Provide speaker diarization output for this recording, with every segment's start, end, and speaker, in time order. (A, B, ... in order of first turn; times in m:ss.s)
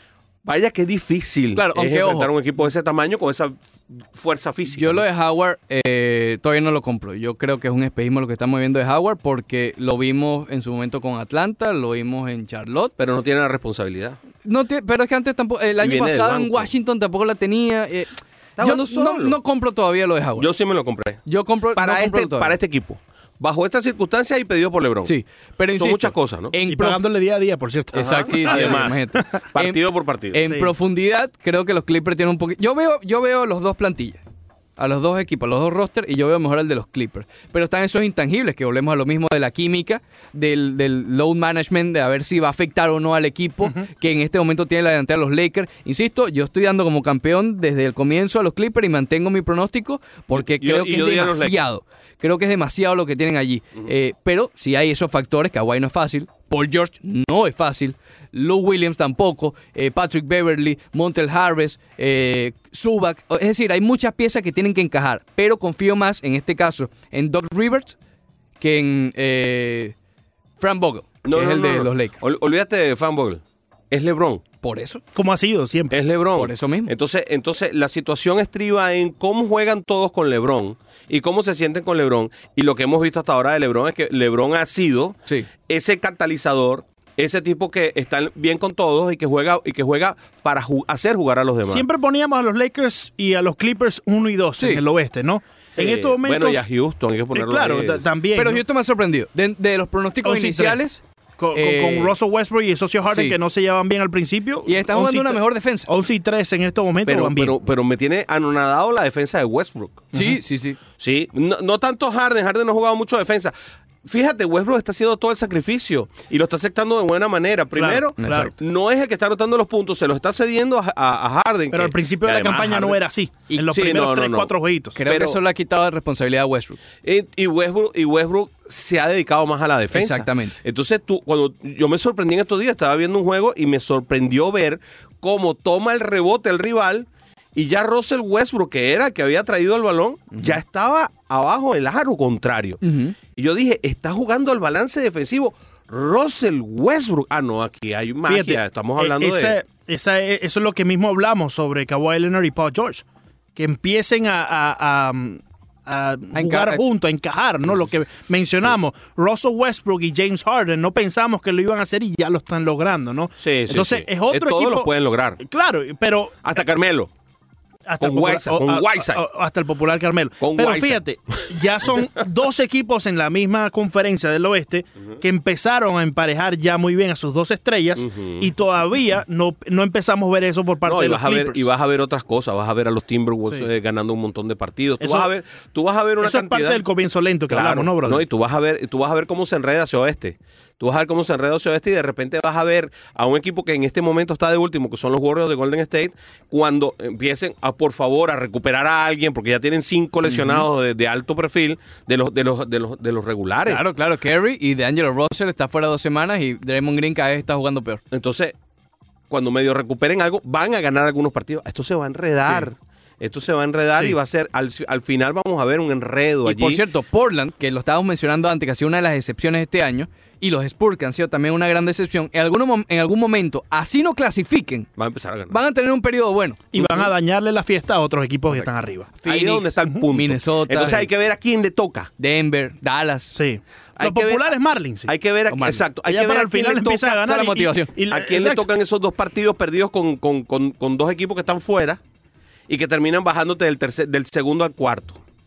0:00.4-0:05.0 A
0:01.6-0:02.3 B
0:04.7-0:12.9 B
0:13.0-0:14.2 A
0:14.4-0:20.5 B
0:15.8-0:16.7 A
0:18.6-0:19.4 A
0:20.4-0:21.2 A
0:21.3-0:22.6 B
0:21.8-0:25.1 A
0:25.0-0:27.0 B
0:25.8-0:26.6 A
0:26.7-0:29.2 C
0:27.9-0:29.8 B
0:28.0-0:30.4 A
0:30.3-0:34.2 B
0:30.4-0:30.7 C
0:34.8-1:08.0 B
0:50.3-0:51.6 A
1:08.6-1:10.0 B
1:10.6-1:12.2 B
1:11.2-1:14.4 A
1:14.6-1:15.0 B
1:15.2-1:16.0 C
1:15.9-1:31.9 A
1:16.4-1:16.9 B
1:31.7-1:36.6 C
1:35.7-1:38.1 A
1:37.3-1:38.6 C
1:38.4-1:41.0 B
1:40.2-1:40.8 C
1:41.4-1:47.6 C
1:41.5-1:42.1 B
1:43.1-1:43.4 B
1:44.7-1:45.9 B
1:47.1-1:50.1 A
1:50.1-1:50.8 B
1:51.0-2:03.0 A
1:57.8-1:58.5 C
1:58.2-1:58.5 B
2:01.7-2:05.0 C
2:03.6-2:04.5 A
2:05.0-2:06.8 B
2:05.1-2:05.4 A
2:07.0-2:22.8 A
2:09.9-2:10.6 B
2:22.8-2:23.1 B
2:23.3-2:29.6 A
2:28.3-2:33.0 C
2:33.6-2:46.4 C
2:36.3-2:36.8 B
2:43.4-2:45.4 A
2:46.4-2:47.1 A
2:47.9-3:01.7 C
2:48.0-2:49.2 A
2:50.4-2:52.0 A
2:58.0-2:58.5 A
3:00.8-3:06.8 A
3:05.0-3:05.3 C
3:06.2-3:08.3 C
3:07.5-3:23.8 A
3:20.3-3:20.6 B
3:23.7-3:28.0 B
3:28.1-3:28.6 A
3:29.3-3:36.8 A
3:36.4-3:44.9 B
3:45.0-3:45.6 A
3:45.5-3:47.1 B
3:46.7-3:49.1 C
3:49.2-3:51.1 B
3:49.2-3:52.1 A
3:52.2-3:53.4 B
3:53.3-3:55.1 C
3:54.0-3:54.5 A
3:55.1-3:57.1 A
3:55.5-3:55.8 B
3:56.0-3:58.7 C
3:57.0-3:57.9 B
3:58.1-4:02.0 A
4:02.7-4:05.2 A